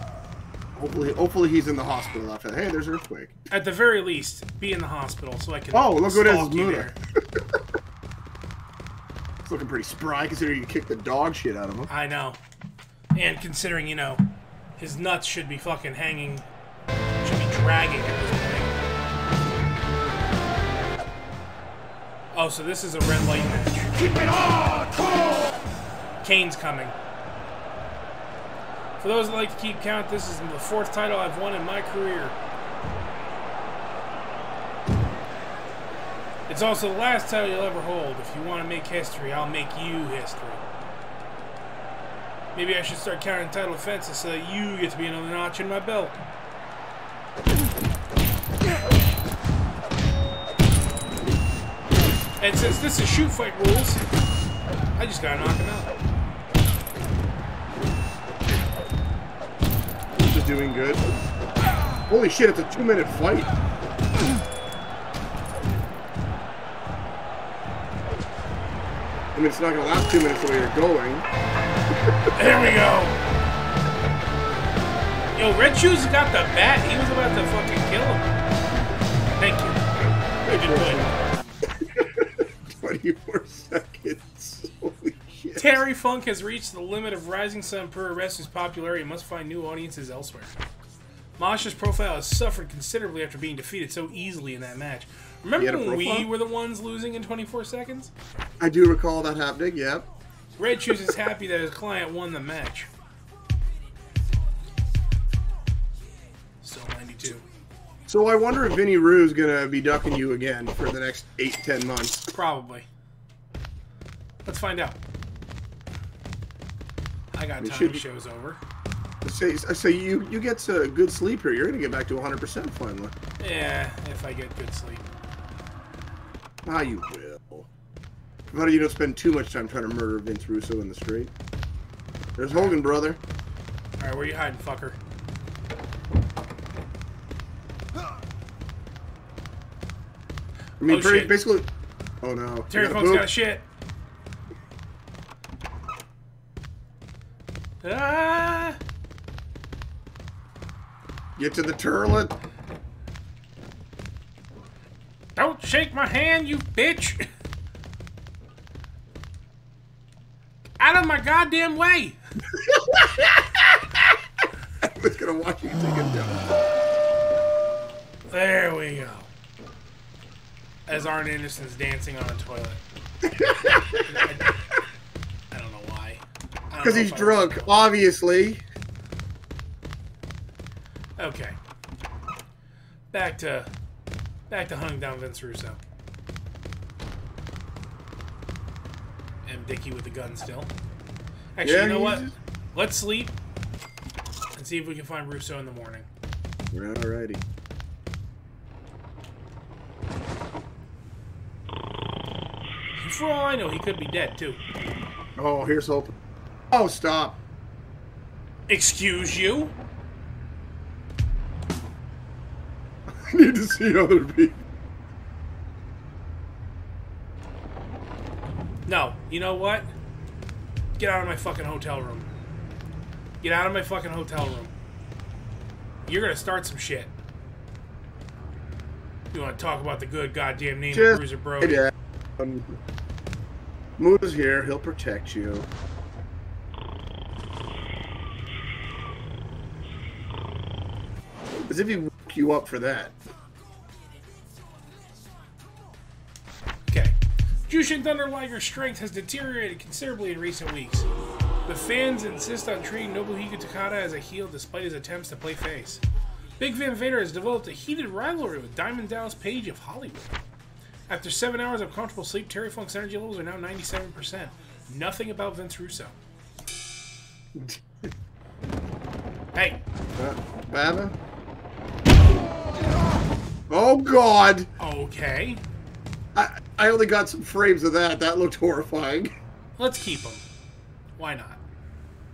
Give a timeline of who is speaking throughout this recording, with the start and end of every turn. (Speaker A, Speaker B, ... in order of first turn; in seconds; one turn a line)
Speaker A: 0.8-3.3
Speaker B: 3.5-6.9
Speaker A: 5.7-6.9
Speaker A: 9.4-11.9
Speaker B: 11.9-12.4
Speaker B: 13.1-14.2
Speaker B: 14.8-16.4
Speaker B: 17.2-18.7
Speaker B: 22.3-24.4
Speaker B: 26.2-26.9
Speaker B: 29.0-32.4
Speaker B: 36.5-40.6
Speaker B: 42.5-46.2
Speaker B: 52.4-54.0
Speaker B: 55.0-55.9
Speaker A: 60.2-61.0
Speaker A: 62.1-63.5
Speaker A: 69.3-71.2
Speaker B: 72.3-73.2
Speaker B: 75.3-78.3
Speaker B: 79.4-79.8
Speaker B: 80.5-81.1
Speaker A: 80.5-81.1
Speaker A: 81.7-85.8
Speaker B: 85.5-90.5
Speaker B: 91.4-98.1
Speaker A: 95.6-96.3
Speaker A: 98.6-100.1
Speaker B: 100.6-102.9
Speaker B: 106.6-107.4
Speaker A: 108.1-112.3
Speaker B: 112.3-112.8
Speaker B: 114.4-115.0
Speaker B: 117.3-118.6
Speaker A: 117.6-118.0
Speaker A: 119.2-123.1
Speaker B: 123.4-125.0
Speaker A: 126.6-127.7
Speaker A: 128.5-131.3
Speaker A: 132.4-133.2
Speaker B: 132.5-132.8
Speaker B: 134.0-135.0
Speaker A: 140.8-141.7
Speaker B: 140.8-141.4
Speaker A: 142.2-143.3
Speaker B: 142.7-143.7
Speaker B: 147.8-148.8
Speaker A: 151.4-152.3
Speaker B: 155.3-157.3
Speaker B: 160.8-162.2
Speaker A: 162.6-164.2
Speaker A: 164.8-166.4
Speaker B: 168.3-169.3
Speaker B: 170.9-172.8
Speaker A: 173.2-174.2
Speaker B: 174.0-174.8
Speaker B: 175.5-177.9
Speaker A: 176.8-178.6
Speaker B: 181.2-181.6
Speaker B: 183.1-183.7
Speaker B: 184.5-185.8
Speaker B: 189.4-190.7
Speaker B: 191.6-193.3
Speaker A: 191.6-192.3
Speaker B: 194.6-196.1
Speaker A: 196.7-197.4
Speaker B: 202.9-204.6
Speaker A: 205.3-206.1
Speaker A: 206.7-207.4
Speaker B: 208.7-209.7
Speaker A: 213.1-214.6
Speaker B: 218.8-219.9
Speaker B: 221.0-222.3
Speaker B: 223.4-224.7
Speaker B: 226.1-227.1
Speaker B: 229.3-231.9
Speaker A: 230.9-232.7
Speaker A: 234.0-235.7
Speaker A: 241.7-243.2
Speaker B: 246.9-247.2
Speaker B: 247.7-251.1
Speaker B: 251.7-256.0
Speaker B: 256.6-260.3
Speaker B: 261.1-266.1
Speaker A: 267.5-268.1
Speaker B: 269.5-269.8
Speaker A: 270.2-271.1
Speaker A: 273.7-274.7
Speaker B: 274.8-275.6
Speaker A: 276.3-279.3
Speaker B: 279.8-280.4
Speaker B: 281.2-281.6